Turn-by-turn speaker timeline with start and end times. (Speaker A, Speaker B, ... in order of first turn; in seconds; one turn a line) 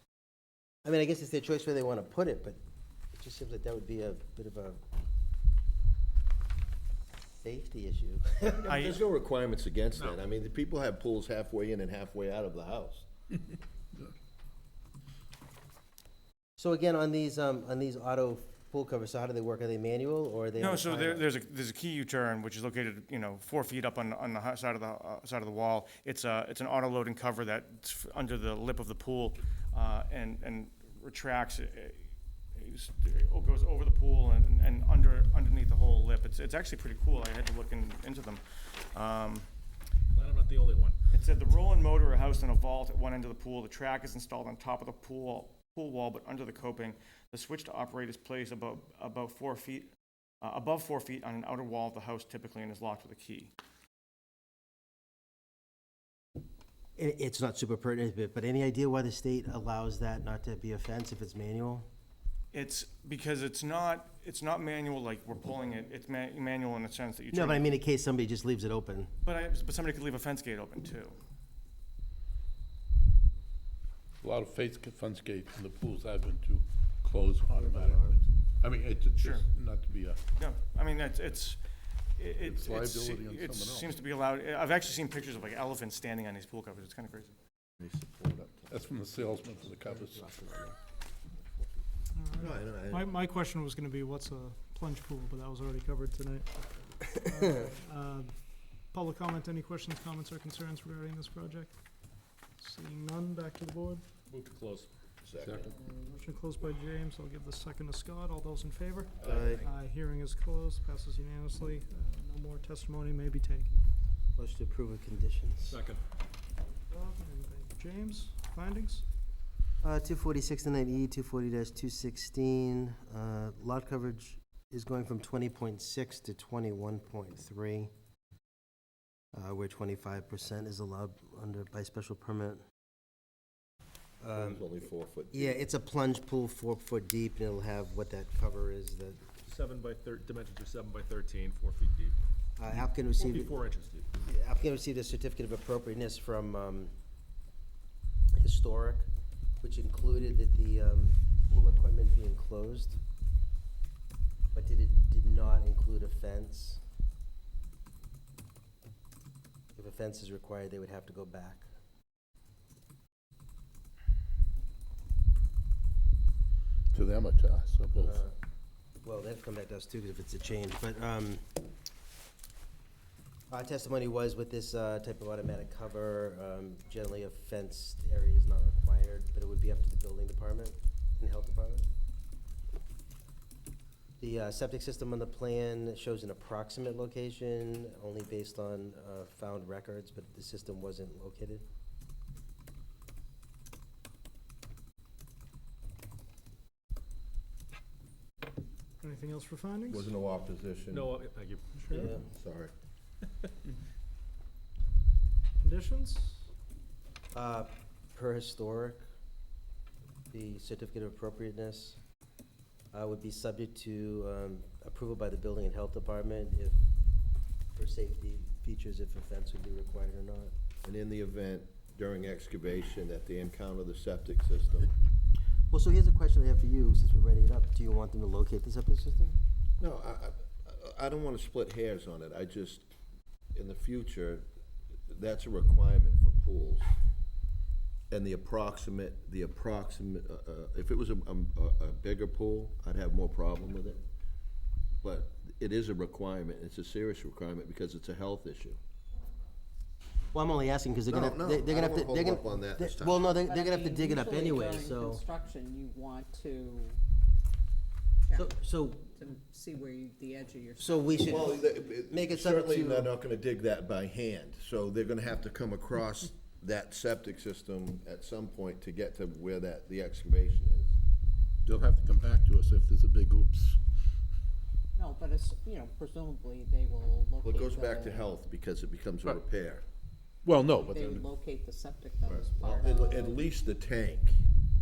Speaker A: 0.8-2.6
Speaker A: 3.1-4.8
Speaker A: 7.4-8.9
Speaker B: 8.5-13.1
Speaker C: 8.7-9.0
Speaker D: 9.9-10.3
Speaker A: 16.6-21.3
Speaker C: 20.6-32.0
Speaker C: 32.6-39.5
Speaker D: 40.1-41.0
Speaker C: 41.1-49.9
Speaker C: 50.4-53.5
Speaker A: 57.0-61.9
Speaker C: 62.5-67.7
Speaker A: 67.3-69.1
Speaker C: 69.2-71.2
Speaker E: 74.2-80.2
Speaker A: 77.5-78.2
Speaker C: 79.2-79.5
Speaker C: 80.4-81.6
Speaker C: 82.2-87.4
Speaker E: 82.4-84.0
Speaker B: 87.8-89.3
Speaker E: 88.7-90.3
Speaker A: 89.8-90.8
Speaker F: 92.1-101.8
Speaker B: 92.3-93.1
Speaker F: 102.6-104.0
Speaker D: 104.3-104.9
Speaker B: 105.2-105.7
Speaker E: 105.4-105.8
Speaker F: 105.9-113.8
Speaker D: 109.2-109.7
Speaker A: 109.2-109.6
Speaker A: 114.4-115.8
Speaker D: 115.6-116.0
Speaker F: 116.9-119.0
Speaker A: 119.8-127.9
Speaker A: 129.3-132.6
Speaker A: 134.2-134.7
Speaker B: 134.3-135.6
Speaker A: 135.3-139.2
Speaker D: 139.4-142.2
Speaker A: 142.6-143.5
Speaker D: 142.7-144.1
Speaker A: 144.2-146.9
Speaker A: 148.4-149.1
Speaker A: 149.6-153.0
Speaker A: 154.5-156.8
Speaker A: 159.8-161.7
Speaker E: 166.9-168.2
Speaker A: 167.9-168.3
Speaker A: 169.0-171.4
Speaker A: 173.5-181.9
Speaker A: 184.2-191.7
Speaker F: 199.0-200.2
Speaker B: 199.9-201.1
Speaker D: 200.9-202.2
Speaker F: 201.8-202.1
Speaker A: 201.9-202.2
Speaker B: 202.3-202.7
Speaker D: 203.2-203.5
Speaker F: 205.6-206.5
Speaker A: 207.3-209.0
Speaker A: 210.3-212.0
Speaker A: 212.9-216.9
Speaker A: 217.8-220.5
Speaker B: 220.8-224.9
Speaker A: 225.7-229.4
Speaker B: 229.8-232.9
Speaker B: 233.6-234.5
Speaker B: 235.1-236.9
Speaker B: 238.1-244.0
Speaker B: 245.0-248.8
Speaker A: 250.3-255.2
Speaker B: 251.1-253.4
Speaker G: 253.5-257.0
Speaker A: 258.3-259.1
Speaker G: 259.1-261.6
Speaker A: 260.8-263.1
Speaker B: 261.2-270.9
Speaker E: 271.6-273.8
Speaker G: 274.9-278.3
Speaker B: 277.4-279.8
Speaker E: 280.4-281.3
Speaker G: 280.9-283.4
Speaker B: 282.2-284.4